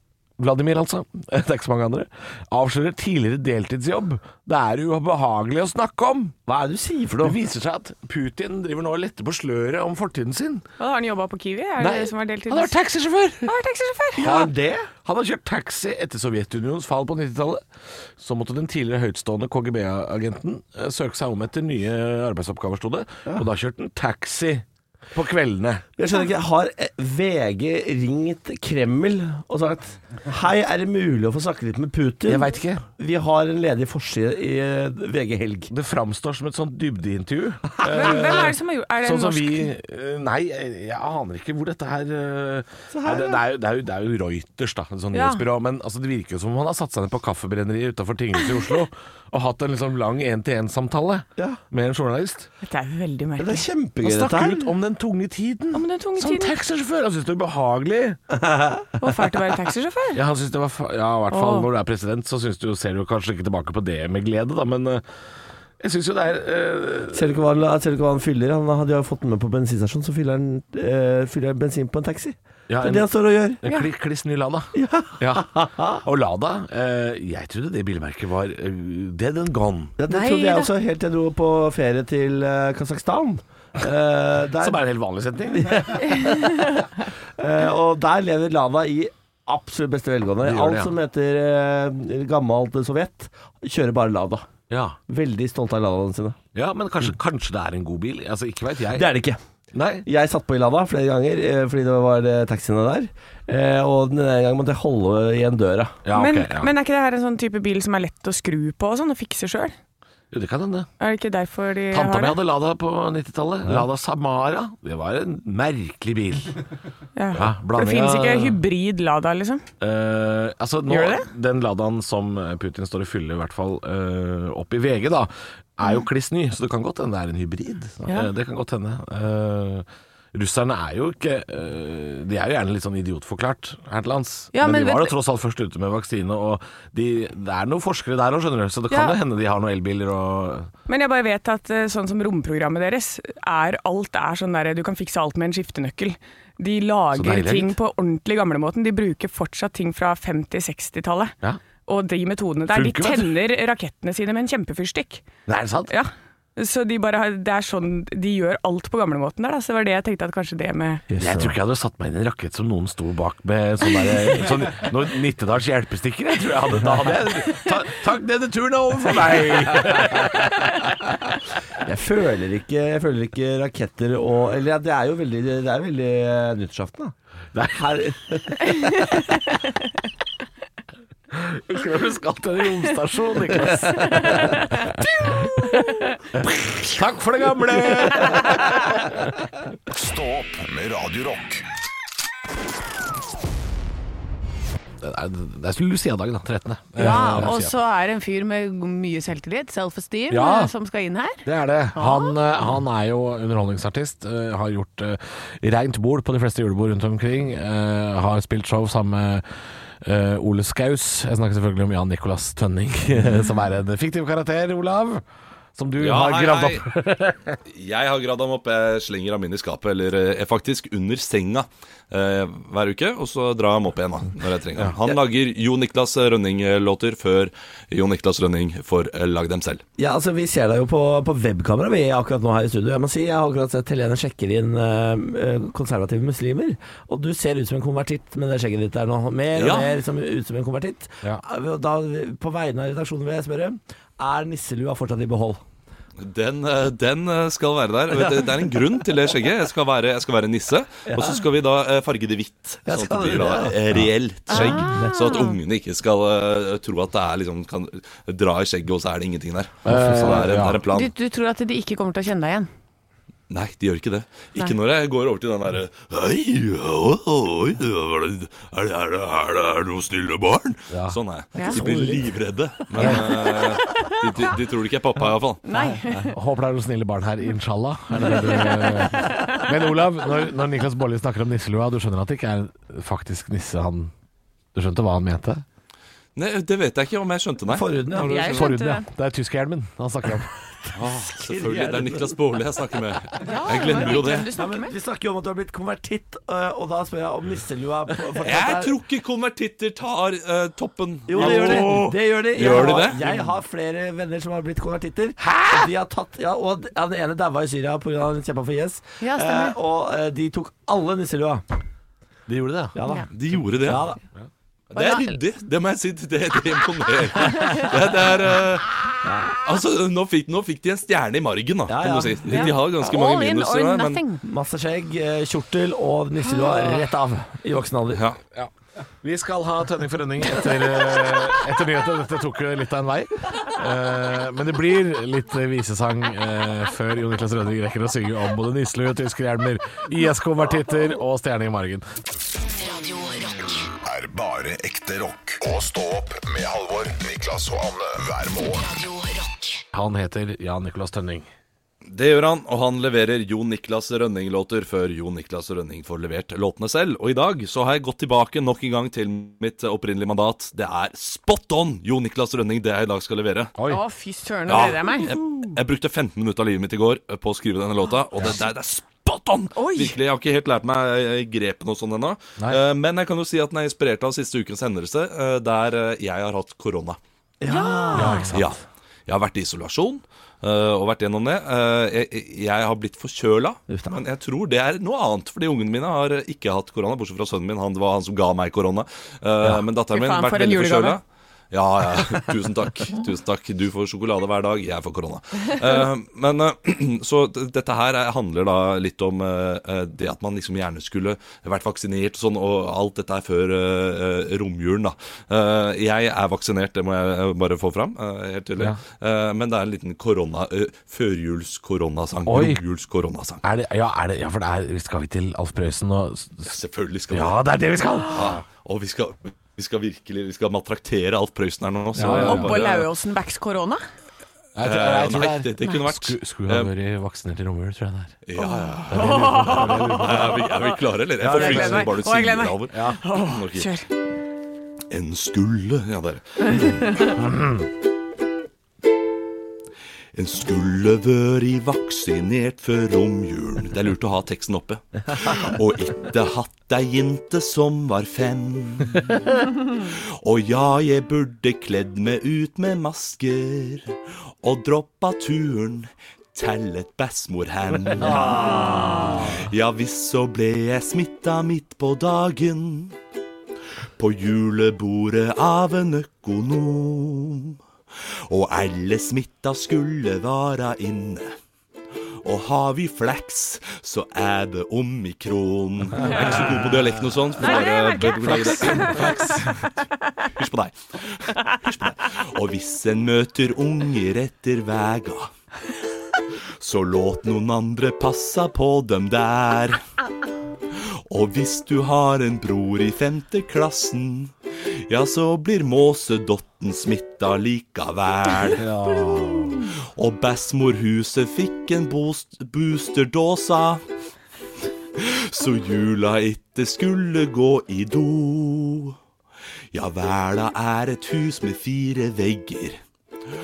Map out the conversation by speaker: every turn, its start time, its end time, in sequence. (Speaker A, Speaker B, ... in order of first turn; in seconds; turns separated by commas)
Speaker A: 0.4-6.3, Speaker B: 6.5-7.4, Speaker A: 7.2-10.6, Speaker C: 10.8-12.7, Speaker A: 11.8-13.5, Speaker C: 13.4-14.4, Speaker B: 14.2-14.9, Speaker A: 14.2-14.5, Speaker A: 15.0-17.6, Speaker A: 18.2-25.8, Speaker B: 26.0-35.7, Speaker A: 32.3-32.8, Speaker A: 35.7-52.5, Speaker C: 37.9-39.7, Speaker B: 42.9-43.4, Speaker C: 45.1-45.4, Speaker C: 52.6-53.6, Speaker B: 53.4-54.7, Speaker A: 54.0-58.2, Speaker C: 55.7-56.5, Speaker B: 58.3-59.0, Speaker C: 59.0-60.2, Speaker A: 60.1-65.0, Speaker C: 61.3-61.7, Speaker A: 65.8-67.3, Speaker B: 67.1-73.6, Speaker A: 72.7-73.1, Speaker A: 73.6-80.0, Speaker B: 74.7-76.0, Speaker B: 80.0-84.8, Speaker C: 80.1-80.7, Speaker A: 84.6-86.0, Speaker B: 85.5-86.8, Speaker B: 87.4-94.5, Speaker A: 90.4-90.9, Speaker A: 94.7-95.0, Speaker B: 95.1-96.4, Speaker A: 96.5-99.1, Speaker B: 98.9-99.4, Speaker A: 99.7-100.0, Speaker B: 100.0-106.0, Speaker A: 106.0-106.7, Speaker C: 106.1-109.7, Speaker A: 110.3-110.9, Speaker C: 111.0-112.4, Speaker A: 111.9-116.6, Speaker C: 117.2-119.6, Speaker A: 117.3-118.6, Speaker A: 119.8-140.7, Speaker C: 120.9-121.3, Speaker C: 134.5-135.1, Speaker C: 138.9-139.2, Speaker C: 140.9-151.3, Speaker A: 147.1-147.8, Speaker C: 151.8-155.2, Speaker A: 152.7-153.3, Speaker A: 155.5-155.9, Speaker C: 155.9-161.0, Speaker B: 161.1-161.6, Speaker A: 161.2-170.9, Speaker B: 166.8-167.1, Speaker B: 171.8-177.1, Speaker B: 177.7-179.0, Speaker C: 178.8-179.2, Speaker A: 181.3-185.6, Speaker B: 183.8-184.5, Speaker C: 184.0-186.1, Speaker A: 186.3-189.1, Speaker D: 189.9-191.6, Speaker A: 195.0-197.7, Speaker C: 197.0-201.4, Speaker A: 200.3-200.7, Speaker A: 201.4-209.4, Speaker C: 201.9-202.3, Speaker A: 210.0-215.2, Speaker A: 215.8-217.6, Speaker E: 216.0-216.8, Speaker E: 217.7-229.8, Speaker B: 230.0-245.6, Speaker E: 239.5-239.9, Speaker E: 246.2-261.1, Speaker B: 251.1-251.4, Speaker B: 252.8-255.2, Speaker C: 254.5-255.6, Speaker A: 259.8-260.8, Speaker B: 259.9-260.5, Speaker C: 260.9-262.7, Speaker E: 263.5-275.6, Speaker A: 270.9-271.2, Speaker B: 271.6-272.2, Speaker A: 271.8-272.1, Speaker A: 272.9-273.2, Speaker C: 273.0-274.2, Speaker C: 275.6-276.4, Speaker A: 276.2-284.1, Speaker C: 278.2-279.8, Speaker A: 284.7-285.6, Speaker E: 286.4-288.6, Speaker B: 287.7-288.5, Speaker C: 288.1-289.1, Speaker A: 288.3-291.0, Speaker E: 290.9-294.5, Speaker B: 291.3-292.4, Speaker C: 293.4-294.9, Speaker B: 294.0-298.9, Speaker E: 298.4-303.2, Speaker B: 301.3-311.6, Speaker A: 301.4-302.1, Speaker A: 303.0-303.4, Speaker A: 305.4-305.9, Speaker C: 309.2-309.8, Speaker A: 312.5-312.9, Speaker B: 312.9-313.3, Speaker E: 313.3-314.1, Speaker B: 313.8-314.2, Speaker E: 314.9-319.0, Speaker C: 314.9-315.3, Speaker B: 319.2-319.6, Speaker E: 319.6-324.2, Speaker B: 321.9-322.8, Speaker C: 322.5-324.4, Speaker B: 324.4-328.2, Speaker E: 328.1-328.4, Speaker A: 329.2-342.1, Speaker F: 342.7-343.9, Speaker D: 344.0-348.9, Speaker F: 348.7-349.8, Speaker A: 349.9-351.5, Speaker E: 352.1-363.7, Speaker C: 363.9-365.4, Speaker E: 364.7-377.2, Speaker C: 369.7-370.2, Speaker B: 377.6-378.6, Speaker C: 377.7-378.6, Speaker A: 378.1-378.6, Speaker E: 378.5-413.6, Speaker B: 383.9-384.2, Speaker C: 390.1-391.2, Speaker A: 412.4-412.8, Speaker A: 413.6-416.7, Speaker E: 416.6-417.6, Speaker A: 417.3-418.6, Speaker E: 418.3-423.1, Speaker A: 422.1-422.9, Speaker C: 422.3-424.0, Speaker A: 424.7-428.4, Speaker E: 424.8-426.9, Speaker E: 428.4-433.9, Speaker C: 428.6-430.9, Speaker A: 429.1-430.6, Speaker A: 431.4-432.1, Speaker C: 431.5-434.1, Speaker A: 432.9-433.2, Speaker E: 435.1-437.2, Speaker A: 437.4-437.7, Speaker E: 440.3-463.2, Speaker B: 458.2-459.3, Speaker A: 458.3-459.3, Speaker C: 458.8-459.4, Speaker E: 464.2-467.8, Speaker E: 468.5-471.6, Speaker E: 472.4-479.9, Speaker C: 477.6-479.6, Speaker A: 478.7-479.7, Speaker E: 480.4-485.5, Speaker E: 486.8-490.0, Speaker E: 491.3-494.5, Speaker E: 495.1-498.9, Speaker A: 498.7-499.9, Speaker E: 500.0-504.0, Speaker E: 505.1-509.2, Speaker E: 509.9-513.0